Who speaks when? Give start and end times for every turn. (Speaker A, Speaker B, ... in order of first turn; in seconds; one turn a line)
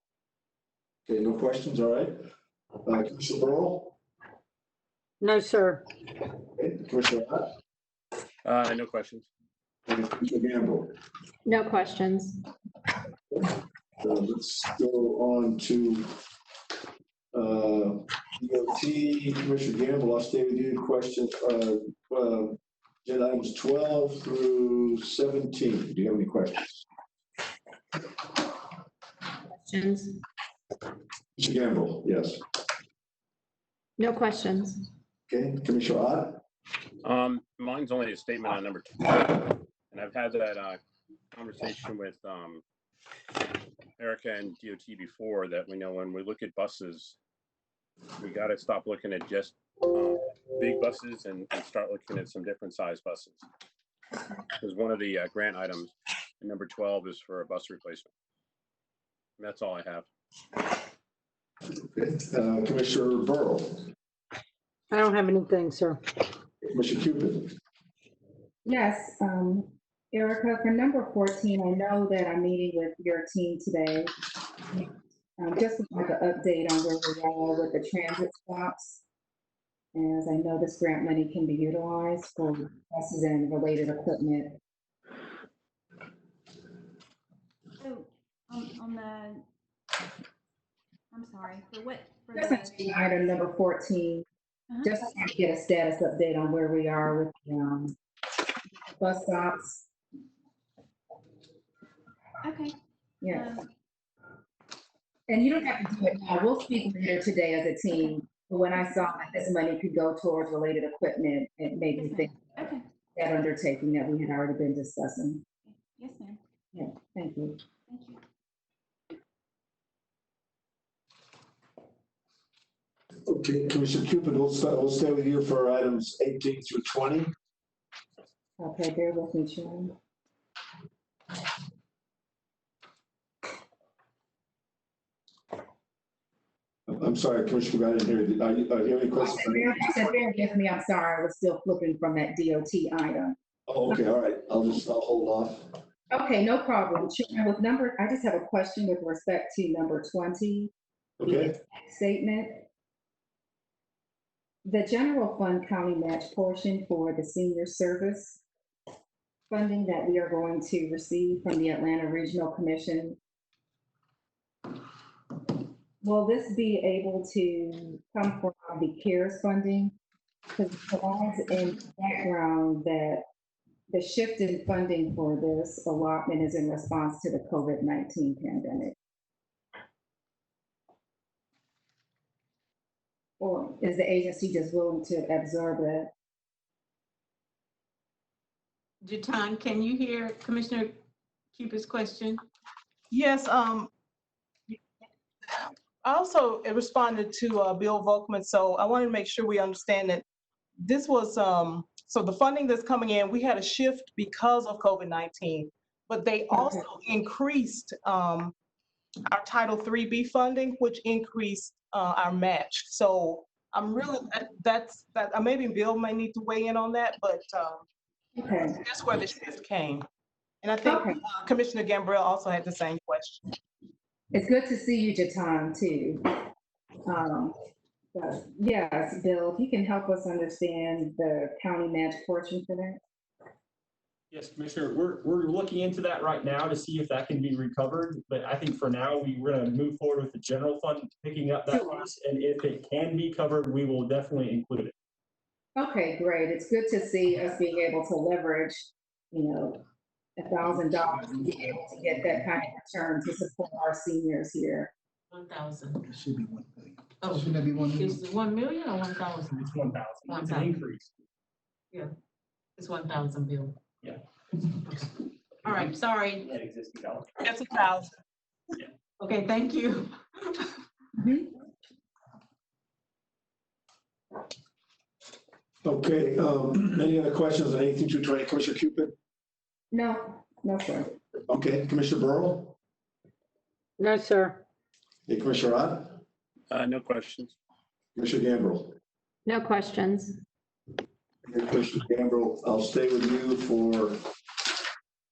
Speaker A: 1.1-2.2
Speaker A: 2.8-3.9
Speaker B: 5.2-5.8
Speaker A: 6.5-7.5
Speaker C: 8.4-9.2
Speaker A: 9.9-10.9
Speaker D: 11.4-12.4
Speaker A: 13.3-16.1
Speaker A: 17.3-26.9
Speaker D: 29.6-30.1
Speaker A: 31.4-32.4
Speaker D: 34.0-34.8
Speaker A: 35.3-36.4
Speaker C: 37.0-40.8
Speaker C: 41.3-42.6
Speaker C: 44.0-47.2
Speaker C: 48.2-53.4
Speaker C: 54.6-58.1
Speaker C: 59.4-60.1
Speaker A: 61.8-63.9
Speaker B: 64.9-66.0
Speaker A: 66.6-67.5
Speaker E: 68.7-74.1
Speaker E: 75.4-79.0
Speaker E: 79.9-84.6
Speaker F: 87.8-89.4
Speaker F: 91.1-93.0
Speaker E: 92.3-94.2
Speaker E: 94.8-97.9
Speaker E: 99.0-99.8
Speaker F: 102.4-102.8
Speaker E: 103.2-103.5
Speaker F: 103.3-103.6
Speaker E: 105.3-112.5
Speaker F: 112.0-112.8
Speaker E: 113.1-115.4
Speaker F: 115.7-116.4
Speaker E: 116.7-117.6
Speaker F: 117.9-118.2
Speaker A: 123.3-127.3
Speaker E: 128.6-129.9
Speaker A: 136.9-140.0
Speaker E: 139.2-143.4
Speaker A: 143.7-145.8
Speaker E: 146.1-150.7
Speaker A: 151.2-151.6
Speaker E: 151.2-152.6
Speaker E: 154.7-158.4
Speaker E: 159.5-163.2
Speaker E: 166.0-169.9
Speaker E: 170.5-173.2
Speaker E: 173.9-178.9
Speaker E: 183.4-186.1
Speaker G: 189.0-191.0
Speaker G: 191.5-192.4
Speaker H: 193.1-193.9
Speaker H: 195.5-200.2
Speaker H: 200.8-208.5
Speaker E: 206.5-206.9
Speaker H: 209.3-217.8
Speaker E: 218.4-218.8
Speaker H: 218.7-220.1
Speaker H: 220.6-223.5
Speaker E: 220.8-221.2
Speaker E: 224.3-226.2
Speaker E: 227.1-227.5
Speaker E: 228.1-233.0
Speaker I: 234.3-244.9
Speaker E: 245.8-249.8
Speaker E: 250.4-254.9
Speaker G: 255.3-256.1
Speaker J: 256.1-258.1
Speaker G: 257.2-259.7
Speaker I: 259.6-261.1
Speaker G: 260.3-260.8
Speaker G: 262.8-263.8
Speaker G: 264.5-266.5
Speaker I: 266.4-267.3
Speaker H: 267.4-268.2
Speaker G: 269.2-270.8
Speaker E: 271.1-271.5
Speaker A: 275.8-279.1
Speaker E: 279.9-281.1
Speaker A: 281.5-282.7
Speaker B: 284.0-284.6
Speaker A: 285.3-286.2
Speaker C: 286.7-287.5
Speaker A: 288.1-288.9
Speaker D: 289.4-290.4
Speaker A: 291.4-294.2